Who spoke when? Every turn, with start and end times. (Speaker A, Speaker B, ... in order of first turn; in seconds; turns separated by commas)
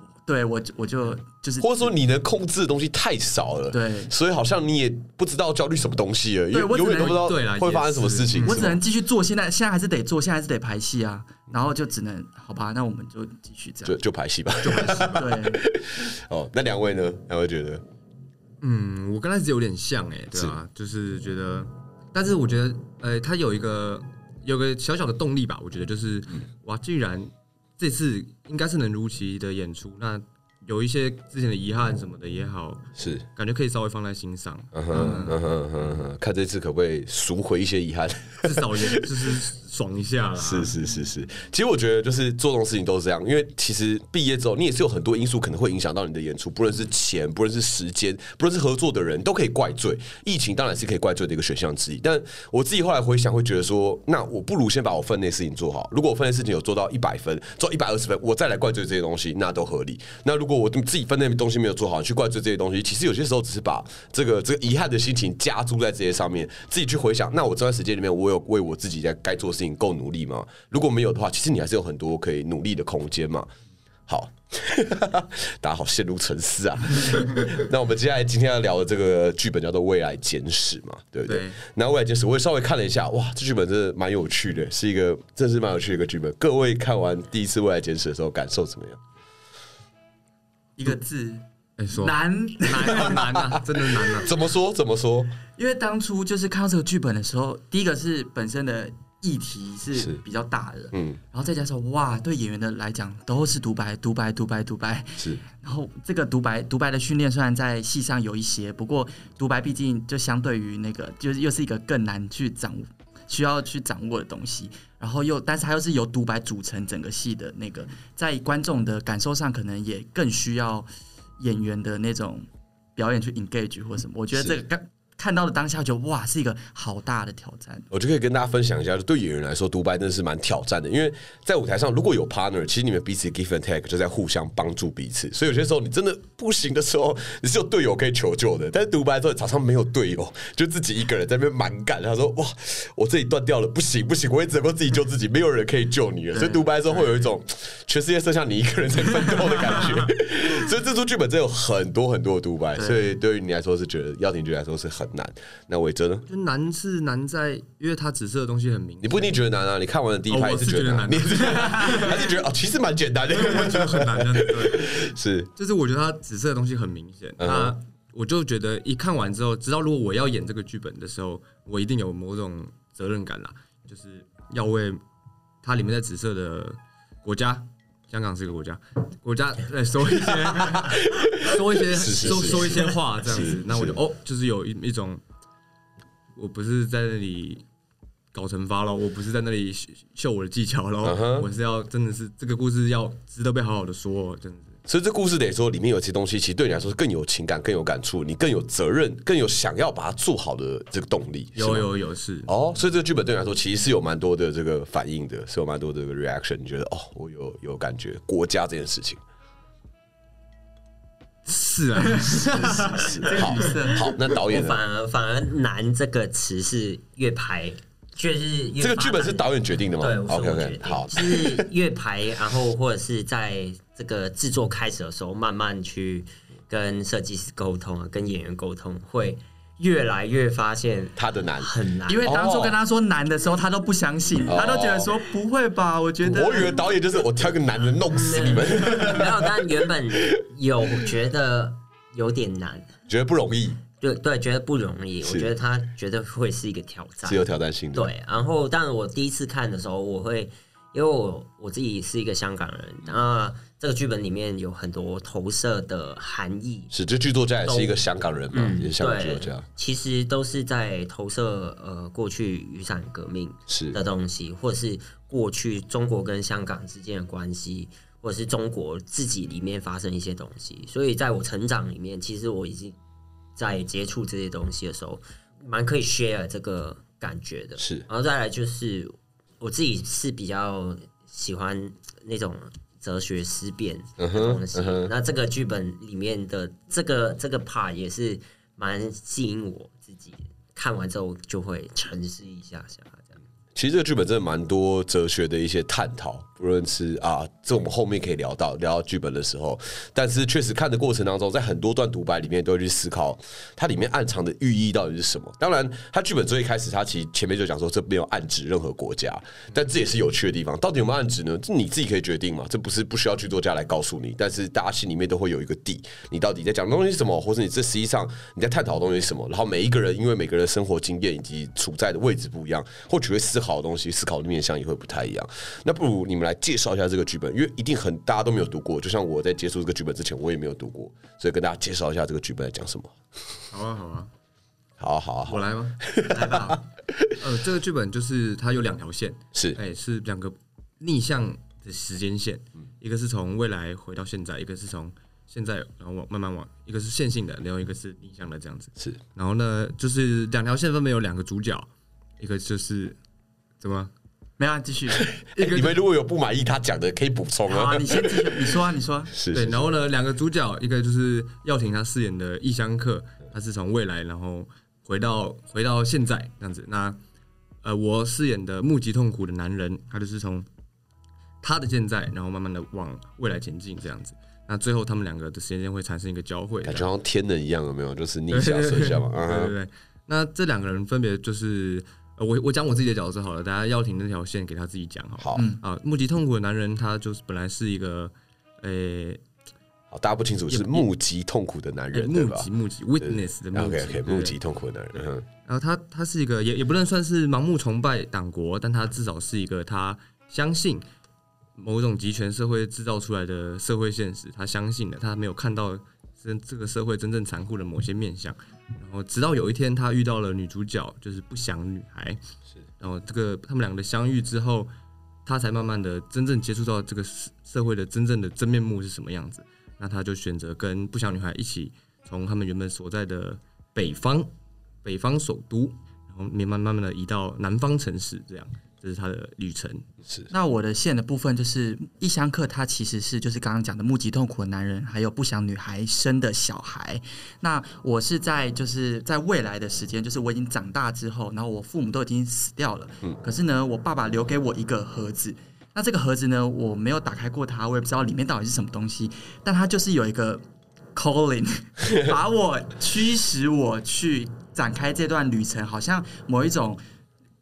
Speaker A: 0.2-1.8, Speaker B: 1.6-8.8, Speaker A: 3.7-4.1, Speaker A: 6.5-7.3, Speaker C: 6.9-8.7, Speaker A: 8.4-14.0, Speaker B: 13.8-17.8, Speaker C: 14.6-15.3, Speaker A: 15.1-15.6, Speaker C: 18.6-35.4, Speaker B: 33.0-33.2, Speaker B: 34.7-39.4, Speaker C: 38.4-40.8, Speaker B: 40.4-73.5, Speaker B: 74.1-89.0, Speaker C: 81.3-81.6, Speaker A: 90.8-91.4, Speaker C: 91.8-94.3, Speaker A: 91.9-93.3, Speaker B: 93.2-95.4, Speaker A: 95.5-127.9, Speaker B: 99.9-100.2, Speaker B: 100.9-101.2, Speaker B: 124.3-124.6, Speaker B: 127.9-156.3, Speaker A: 146.3-146.7, Speaker A: 152.8-153.0, Speaker C: 156.3-159.4, Speaker B: 159.0-165.5, Speaker C: 160.3-162.3, Speaker C: 163.3-175.0, Speaker B: 167.4-167.8, Speaker C: 175.6-185.2, Speaker B: 180.2-184.0, Speaker C: 186.3-187.6, Speaker C: 188.3-194.8, Speaker B: 191.0-191.5, Speaker B: 194.9-201.9, Speaker C: 201.6-202.5, Speaker B: 202.4-209.2, Speaker C: 211.4-213.8, Speaker A: 212.2-214.1, Speaker B: 212.6-214.8, Speaker D: 214.3-232.3, Speaker B: 218.8-221.7, Speaker B: 231.2-231.7, Speaker A: 232.1-236.8, Speaker B: 232.2-232.8, Speaker B: 234.4-235.1, Speaker B: 236.2-240.4, Speaker D: 238.1-242.9, Speaker B: 243.1-243.8, Speaker D: 244.0-256.9, Speaker B: 245.2-245.5, Speaker B: 247.2-248.1, Speaker B: 256.9-259.6, Speaker D: 257.6-258.0, Speaker D: 258.5-273.0, Speaker B: 263.7-264.0, Speaker D: 273.6-293.4, Speaker B: 277.8-278.1, Speaker B: 284.2-285.1, Speaker B: 293.7-333.5, Speaker C: 333.7-334.3, Speaker B: 335.0-337.3, Speaker C: 335.5-336.8, Speaker C: 337.4-353.2, Speaker B: 339.5-339.8, Speaker C: 353.8-354.1, Speaker A: 354.6-355.2, Speaker B: 355.2-359.8, Speaker C: 355.6-355.9, Speaker A: 357.7-359.3, Speaker C: 359.5-367.2, Speaker C: 367.8-370.6, Speaker C: 371.6-377.1, Speaker B: 376.8-379.7, Speaker C: 378.5-389.4, Speaker B: 385.4-385.6, Speaker A: 385.5-385.8, Speaker B: 390.1-392.7, Speaker C: 390.7-391.1, Speaker C: 392.1-394.6, Speaker B: 393.2-395.4, Speaker C: 395.1-401.0, Speaker C: 401.8-412.4, Speaker C: 413.0-414.9, Speaker C: 415.4-424.5, Speaker C: 425.0-430.0, Speaker A: 430.5-450.6, Speaker A: 451.1-457.0